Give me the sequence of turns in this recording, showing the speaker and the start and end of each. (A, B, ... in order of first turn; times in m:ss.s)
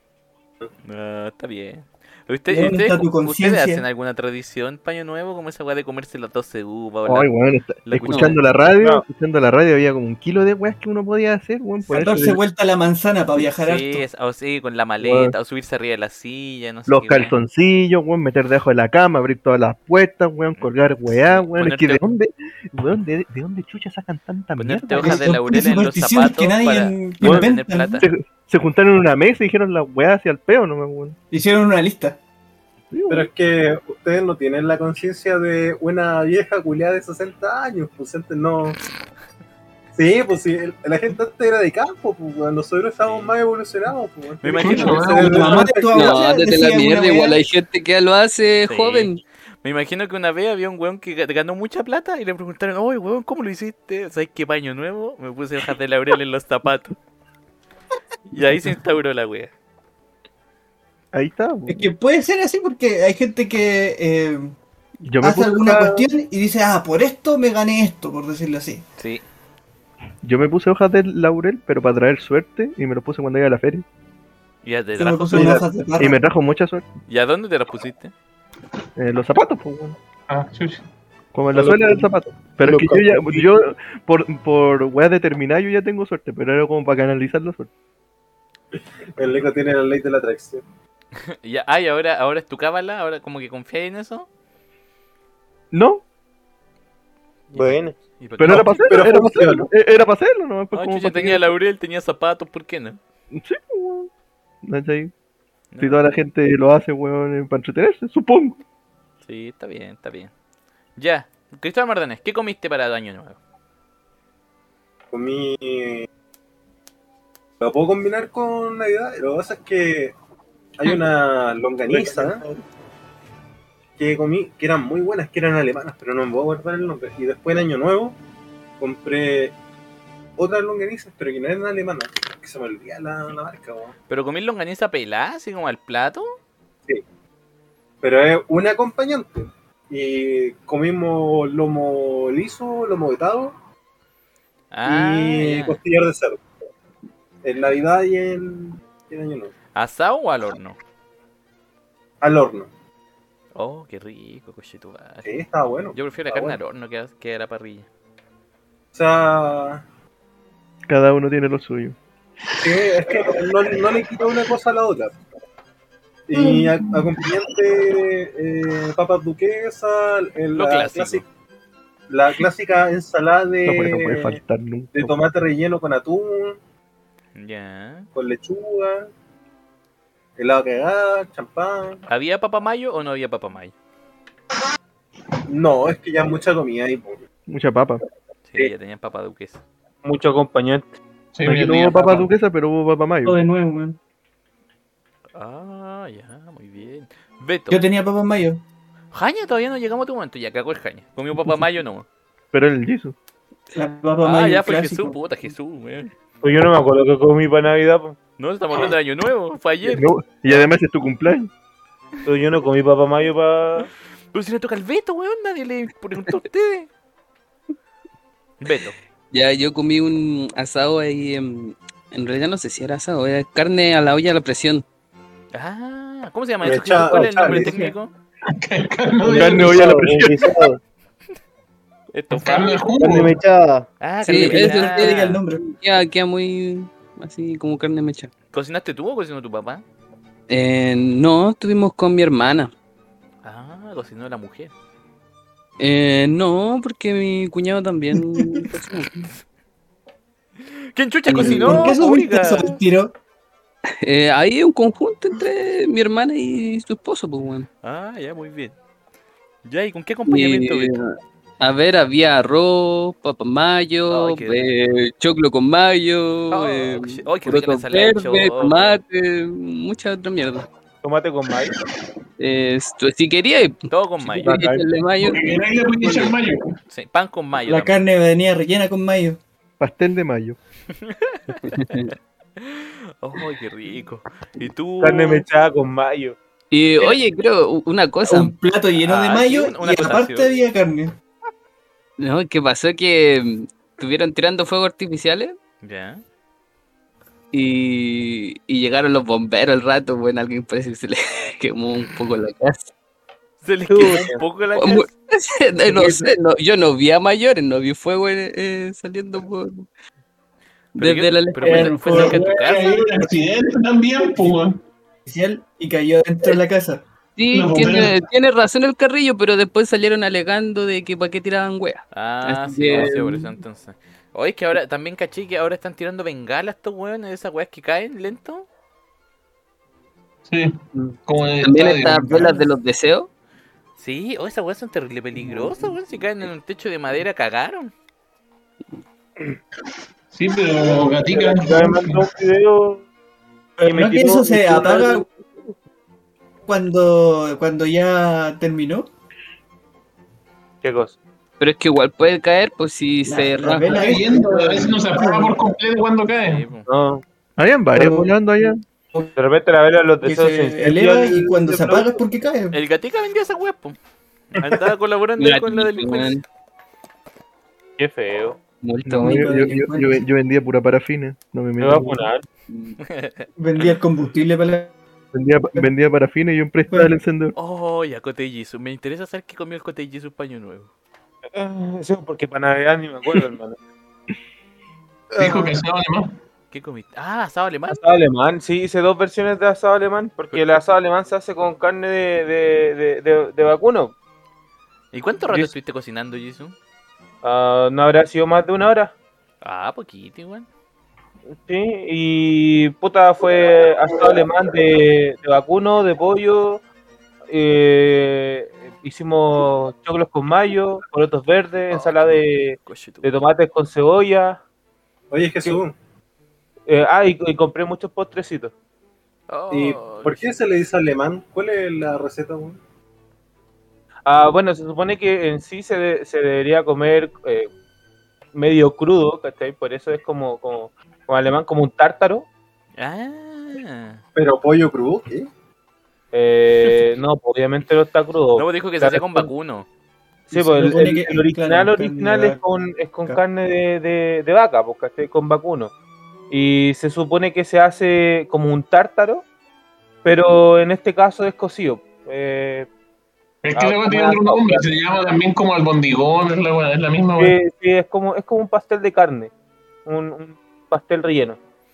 0:00.9-0:07.3 A
0:02.5-0:03.8 B
0:07.1-0:12.4 C
0:07.9-0:08.4 A
0:08.1-0:08.4 D
0:08.8-0:09.0 E
0:11.9-0:14.0 B
0:13.4-0:17.3 A
0:15.0-0:15.3 C
0:16.9-0:25.3 C
0:20.6-0:22.0 A
0:24.6-0:28.1 A
0:25.0-0:28.0 B
0:27.2-0:31.2 C
0:31.3-0:32.2 B
0:32.9-0:33.3 C
0:33.1-0:38.8 F
0:40.0-0:46.2 F
0:43.0-0:43.3 A
0:44.4-0:45.6 A
0:44.6-0:45.6 G
0:45.0-0:47.4 B
0:45.9-0:49.2 D
0:48.6-0:49.1 A
0:49.6-0:57.0 A
0:58.3-0:59.5 A
1:01.1-1:01.9 C
1:01.7-1:04.6 B
1:05.1-1:06.0 C
1:05.2-1:08.8 B
1:09.0-1:09.2 A
1:10.2-1:13.8 C
1:14.6-1:15.6 A
1:15.0-1:16.2 B
1:15.3-1:16.9 C
1:17.1-1:18.1 A
1:19.0-1:20.0 C
1:20.3-1:20.8 G
1:21.3-1:27.7 C
1:21.5-1:22.1 F
1:22.6-1:23.5 F
1:29.2-1:30.6 F
1:31.2-1:34.3 A
1:35.7-1:36.0 C
1:37.5-1:38.0 E
1:37.6-1:38.9 A
1:38.4-1:41.5 C
1:38.5-1:39.7 F
1:40.7-1:43.0 A
1:43.3-1:44.1 C
1:44.6-1:45.1 C
1:45.7-1:46.2 A
1:45.8-1:48.6 C
1:49.2-1:50.3 A
1:51.0-1:53.4 A
1:55.1-1:56.1 F
1:57.6-2:00.1 F
2:00.8-2:02.4 F
2:01.9-2:02.6 B
2:04.0-2:08.2 F
2:08.8-2:09.6 F
2:10.4-2:13.9 F
2:14.1-2:16.3 A
2:18.0-2:23.5 F
2:24.7-2:25.8 A
2:24.8-2:26.4 F
2:27.4-2:29.5 F
2:29.8-2:30.8 A
2:32.2-2:32.7 F
2:33.6-2:35.3 A
2:35.2-2:36.6 F
2:35.9-2:37.9 A
2:38.9-2:39.8 F
2:40.9-2:42.0 C
2:42.6-2:45.2 F
2:46.3-2:51.2 F
2:46.4-2:46.7 B
2:50.5-2:51.2 A
2:52.1-2:54.4 F
2:53.6-2:55.2 C
2:54.9-2:56.6 F
2:57.4-2:58.1 A
2:58.2-2:59.1 F
3:00.4-3:02.0 F
3:02.1-3:03.7 A
3:05.5-3:07.2 F
3:07.5-3:08.0 C
3:08.5-3:09.6 A
3:10.0-3:10.9 E
3:11.3-3:12.3 G
3:11.4-3:13.4 C
3:13.2-3:14.0 B
3:15.4-3:17.8 A
3:17.7-3:18.6 B
3:19.1-3:22.1 A
3:22.5-3:23.2 C
3:23.7-3:25.2 B
3:24.2-3:26.1 A
3:26.4-3:28.2 E
3:28.4-3:30.7 A
3:29.8-3:31.5 C
3:32.2-3:33.9 E
3:34.3-3:36.9 A
3:38.6-3:39.0 A
3:39.3-3:44.8 D
3:45.5-3:48.1 A
3:46.6-3:47.8 F
3:47.4-3:48.0 B
3:48.6-3:50.1 G
3:49.2-3:50.7 C
3:49.3-3:50.8 E
3:52.1-3:52.9 A
3:52.3-3:53.4 G
3:53.0-3:54.5 E
3:54.0-3:55.2 A
3:54.2-3:58.3 D
3:54.4-3:55.6 B
3:58.5-3:59.8 A
4:00.5-4:02.7 D
4:03.4-4:04.7 A
4:05.8-4:09.3 D
4:08.2-4:08.7 B
4:10.9-4:12.8 A
4:11.3-4:13.1 B
4:11.3-4:12.0 D
4:14.0-4:17.7 D
4:17.8-4:18.8 A
4:19.6-4:20.9 A
4:20.3-4:30.7 D
4:24.1-4:24.7 A
4:26.5-4:29.0 A
4:31.0-4:31.8 E
4:32.4-4:35.4 D
4:33.9-4:34.6 A
4:34.4-4:34.8 E
4:35.2-4:36.7 G
4:36.0-4:36.3 D
4:36.9-4:38.0 A
4:37.6-4:39.4 B
4:39.8-4:40.6 C
4:41.0-4:42.0 A
4:41.7-4:42.1 D
4:42.6-4:45.4 A
4:45.0-4:46.4 E
4:46.7-4:48.5 D
4:48.3-4:51.1 B
4:49.0-4:50.5 A
4:52.2-4:55.6 D
4:55.8-4:56.2 A
4:57.5-5:02.9 D
5:03.6-5:05.1 A
5:03.9-5:04.4 E
5:04.8-5:09.9 D
5:05.9-5:06.3 E
5:11.0-5:12.2 D
5:11.0-5:13.0 A
5:11.6-5:13.0 B
5:12.0-5:14.8 G
5:15.3-5:17.0 B
5:17.4-5:23.5 D
5:17.5-5:18.2 G
5:22.1-5:28.7 A
5:30.5-5:32.6 G
5:31.6-5:33.3 D
5:34.0-5:37.9 A
5:40.3-5:42.4 G
5:40.8-5:43.0 E
5:43.8-5:45.3 B
5:43.9-5:45.7 E
5:46.7-5:49.1 B
5:50.8-5:51.2 E
5:51.6-5:54.0 D
5:53.2-5:55.6 B
5:53.8-5:56.7 G
5:56.3-5:56.9 A
5:56.9-5:57.2 E
5:57.6-5:58.8 C
5:57.9-5:58.4 B
5:59.4-6:02.2 E
6:00.2-6:02.8 B
6:02.7-6:04.0 A
6:04.5-6:06.4 A
6:05.4-6:06.4 D
6:08.0-6:08.6 E
6:08.8-6:09.5 D
6:09.0-6:12.3 C
6:09.2-6:10.2 B
6:11.8-6:12.5 E
6:12.7-6:13.0 D
6:13.1-6:14.0 A
6:13.6-6:14.9 B
6:15.3-6:17.6 C
6:16.9-6:17.1 B
6:17.6-6:20.9 A
6:21.6-6:23.8 E
6:25.4-6:26.4 G
6:25.4-6:25.7 E
6:26.7-6:28.0 A
6:27.9-6:34.2 E
6:35.1-6:36.8 A
6:37.4-6:39.1 E
6:39.6-6:40.7 A
6:41.5-6:46.8 E
6:47.5-6:54.6 E
6:51.9-6:53.3 A
6:55.3-6:56.0 F
6:56.9-6:58.7 E
6:59.5-7:00.5 A
6:59.7-7:02.8 F
7:04.3-7:07.7 E
7:08.5-7:12.5 E
7:13.0-7:14.2 A
7:14.4-7:15.5 F
7:16.3-7:19.5 E
7:16.8-7:17.2 A
7:18.6-7:19.9 A
7:20.5-7:22.6 B
7:20.5-7:25.9 E
7:26.5-7:29.5 E
7:30.2-7:32.9 E
7:33.6-7:37.6 G
7:33.8-7:34.9 E
7:37.4-7:39.5 E
7:40.0-7:41.6 E